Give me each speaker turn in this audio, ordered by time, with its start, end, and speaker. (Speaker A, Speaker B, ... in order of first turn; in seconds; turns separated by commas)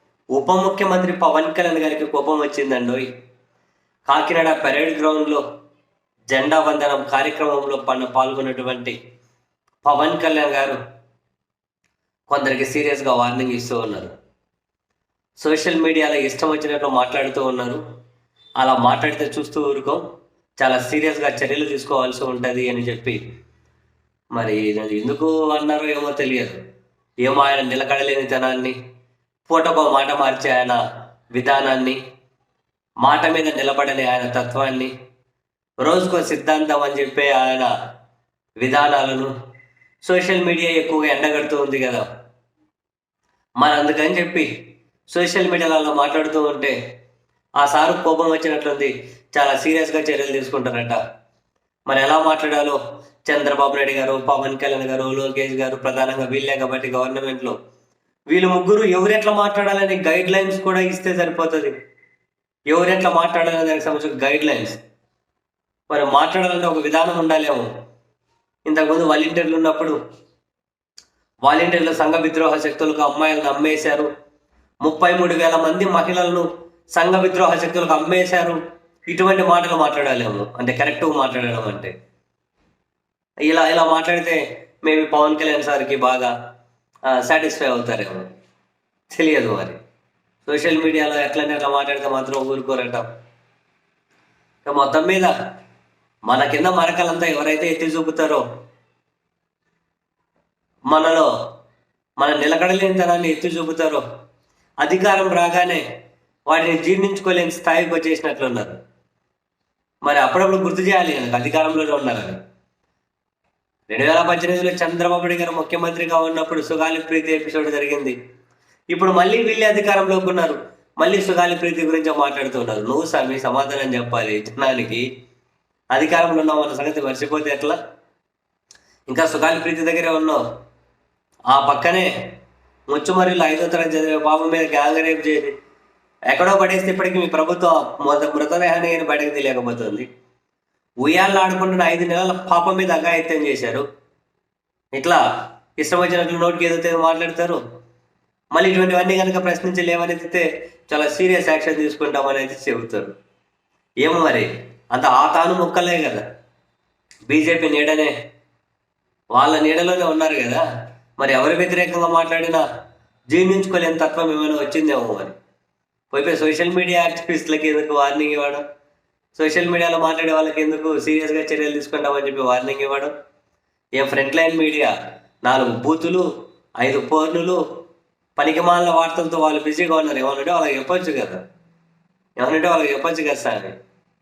Speaker A: 0.3-3.1, Speaker A: 4.1-5.4, Speaker A: 6.3-9.0, Speaker A: 9.8-10.8, Speaker A: 12.3-14.1, Speaker A: 15.4-17.8, Speaker A: 18.6-20.0, Speaker A: 20.6-23.2, Speaker A: 24.4-26.6, Speaker A: 27.2-28.8, Speaker A: 29.5-30.8, Speaker A: 31.3-32.0, Speaker A: 33.0-34.9, Speaker A: 35.8-37.7, Speaker A: 38.6-39.3, Speaker A: 40.0-42.0, Speaker A: 43.6-44.5, Speaker A: 45.1-46.8, Speaker A: 47.6-51.0, Speaker A: 51.9-57.6, Speaker A: 58.3-61.7, Speaker A: 62.7-64.8, Speaker A: 65.9-67.7, Speaker A: 68.7-70.0, Speaker A: 71.5-74.1, Speaker A: 74.8-81.9, Speaker A: 83.5-86.3, Speaker A: 87.1-88.3, Speaker A: 89.1-89.8, Speaker A: 90.5-93.1, Speaker A: 94.7-95.3, Speaker A: 96.3-98.4, Speaker A: 100.9-101.3, Speaker A: 102.2-104.0, Speaker A: 104.8-105.8, Speaker A: 106.5-108.8, Speaker A: 110.0-112.4, Speaker A: 113.9-118.2, Speaker A: 118.9-125.1, Speaker A: 125.9-127.8, Speaker A: 129.1-130.4, Speaker A: 131.5-132.1, Speaker A: 132.9-135.5, Speaker A: 136.3-140.1, Speaker A: 141.0-143.8, Speaker A: 144.9-145.2, Speaker A: 145.8-147.6, Speaker A: 148.5-153.1, Speaker A: 154.0-156.2, Speaker A: 157.3-158.1, Speaker A: 159.3-160.6, Speaker A: 161.2-162.6, Speaker A: 163.3-165.3, Speaker A: 166.1-168.6, Speaker A: 169.4-173.1, Speaker A: 174.0-174.9, Speaker A: 175.4-176.3, Speaker A: 176.8-177.6, Speaker A: 178.4-181.4, Speaker A: 182.4-183.8